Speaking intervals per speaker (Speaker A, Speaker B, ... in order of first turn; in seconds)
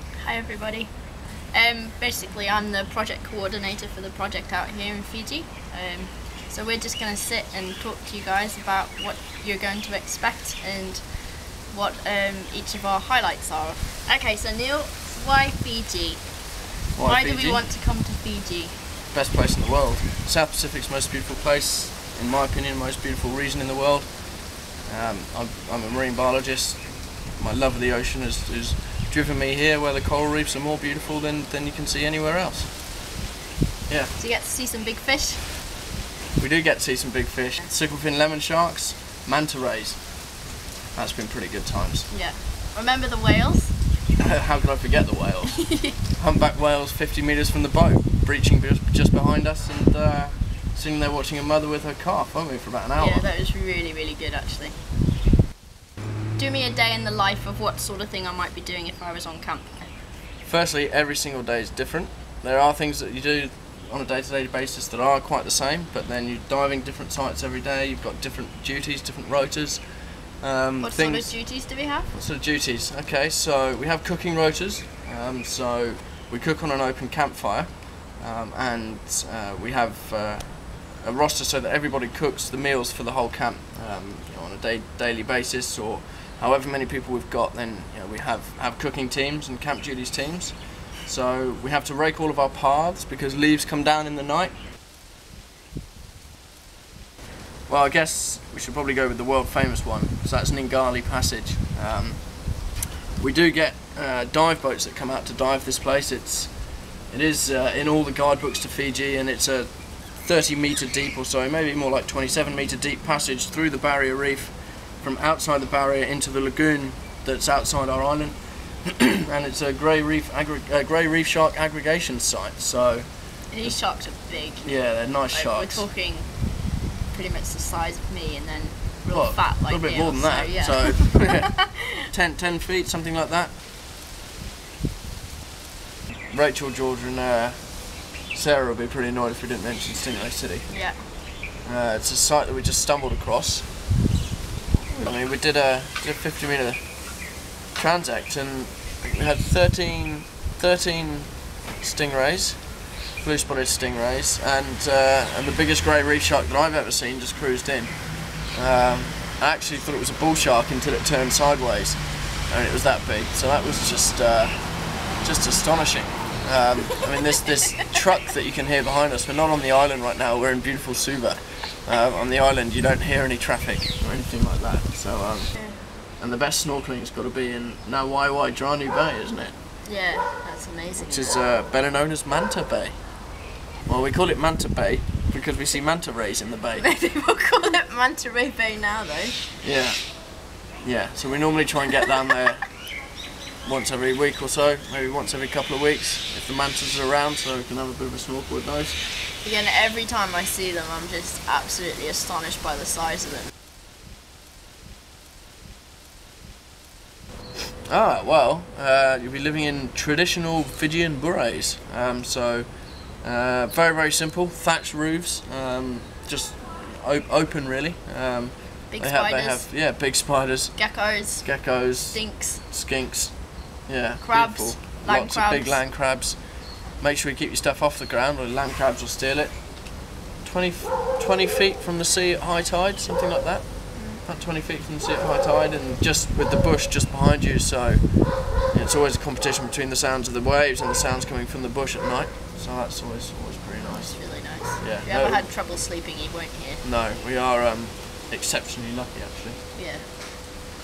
Speaker A: 0.2-18.8, 34.2-35.4, 42.1-43.8, 45.6-45.9, 53.0-54.8, 56.3-59.9, 70.8-72.1, 123.5-131.6, 140.7-141.1, 175.5-175.8, 179.8-181.5, 186.7-189.5, 199.4-203.5, 218.9-219.7, 220.7-222.6, 224.2-225.8, 233.9-234.2, 243.9-246.8, 249.7-250.1
Speaker B: 16.9-17.6, 19.1-32.7, 33.9-34.1, 36.4-40.4, 40.9-42.1, 44.2-53.2, 60.4-94.5, 97.7-125.9, 129.1-133.6, 136.3-141.1, 141.6-143.7, 145.0-179.5, 181.0-186.8, 189.6-192.9, 193.6-199.0, 207.8-245.6, 246.8-249.7